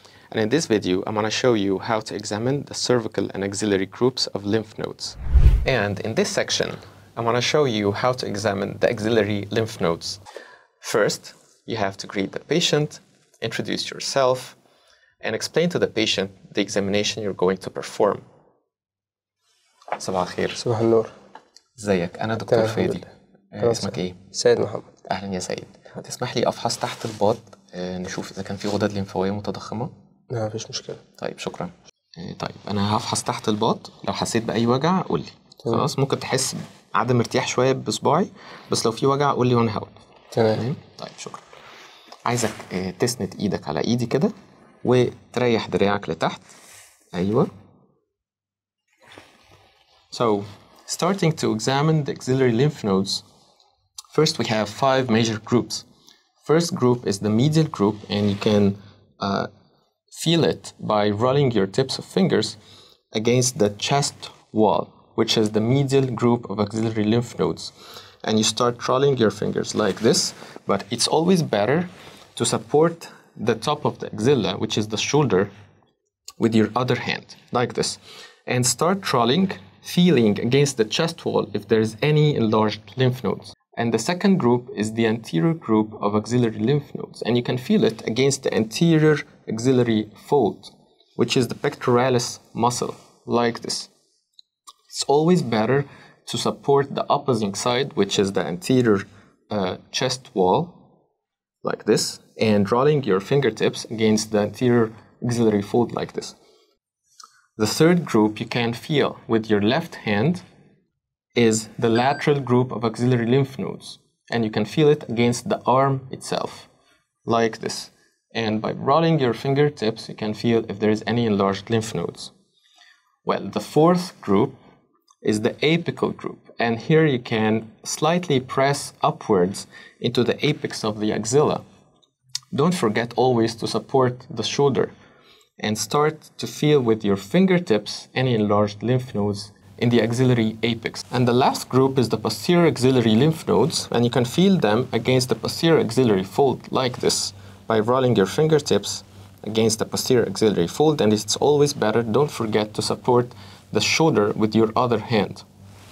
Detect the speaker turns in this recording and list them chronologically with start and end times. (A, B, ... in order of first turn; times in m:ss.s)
0:00.3-0:10.2 A
0:10.8-0:14.6 A
0:15.2-0:18.2 A
0:20.0-0:20.6 A
0:20.6-0:21.1 B
0:21.8-0:24.2 A
0:22.5-0:23.0 B
0:23.6-0:24.9 B
0:25.0-0:29.9 A
0:30.3-0:31.0 B
0:31.2-0:40.0 A
0:40.3-0:40.6 B
0:40.5-0:41.4 A
0:42.2-0:46.4 A
0:47.1-0:47.5 A
0:50.1-0:53.2 A
0:54.1-0:55.8 A
0:56.4-0:59.5 A
1:00.1-1:02.6 A
1:03.1-1:15.5 A
1:16.4-1:33.9 A
1:34.9-1:40.8 A
1:41.6-1:46.4 A
1:47.6-1:50.4 A
1:51.4-1:56.7 A
1:57.2-2:02.3 A
2:03.2-2:04.5 A
2:05.2-2:11.6 A
2:12.5-2:14.9 A
2:15.6-2:35.4 A